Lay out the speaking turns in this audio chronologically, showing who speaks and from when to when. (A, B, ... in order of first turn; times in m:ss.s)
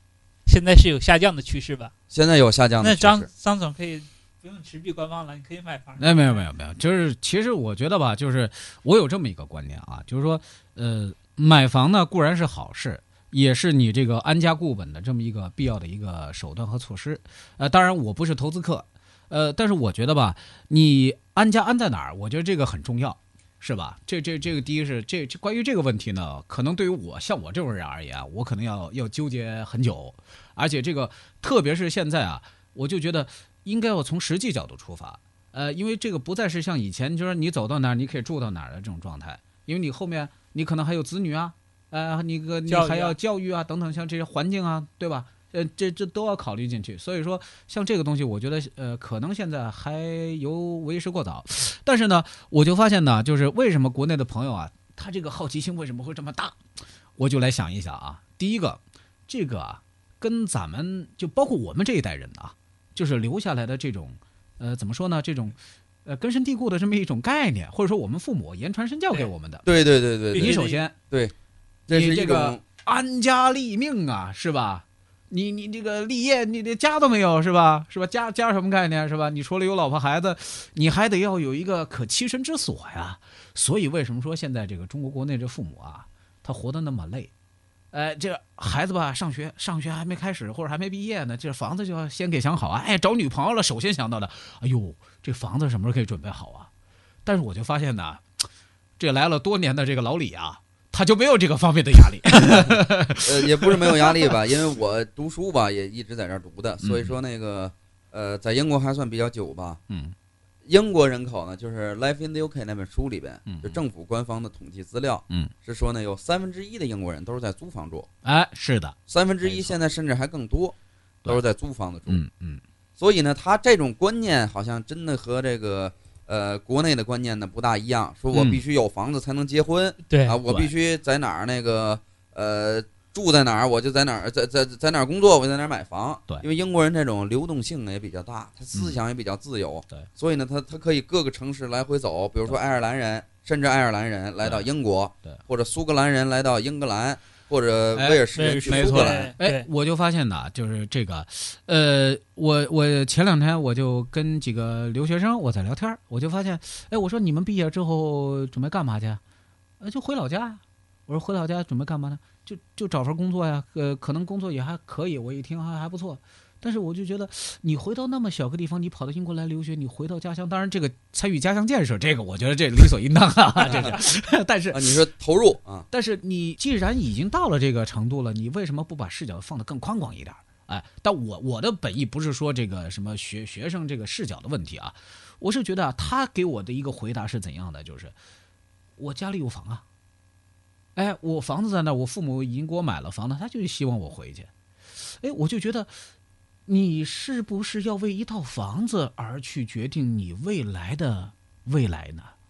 0:00.4-0:01.9 A
0:02.1-0:03.3 B
0:02.8-0:06.4 A
0:06.0-0:56.6 C
0:42.7-0:43.2 A
0:57.2-1:09.6 C
1:09.6-1:10.6 B
1:10.3-1:10.8 A
1:10.3-1:10.9 C
1:11.9-1:12.6 B
1:11.9-1:27.3 C
1:27.9-1:36.7 C
1:37.2-1:38.5 C
1:39.0-1:44.3 C
1:42.5-1:49.8 B
1:46.8-1:47.1 C
1:49.9-1:50.1 C
1:50.6-1:58.1 B
1:53.4-1:53.8 C
1:58.2-1:59.7 C
1:59.1-2:00.7 B
2:01.2-2:02.2 B
2:02.1-2:02.6 C
2:03.0-2:29.3 B
2:08.3-2:08.6 C
2:10.1-2:10.4 A
2:27.9-2:39.2 C
2:28.3-2:29.6 A
2:39.8-2:55.0 C
2:53.6-2:54.0 B
2:54.7-2:55.8 B
2:55.9-3:08.1 C
3:09.0-3:09.8 C
3:11.0-3:16.1 C
3:16.6-3:22.3 C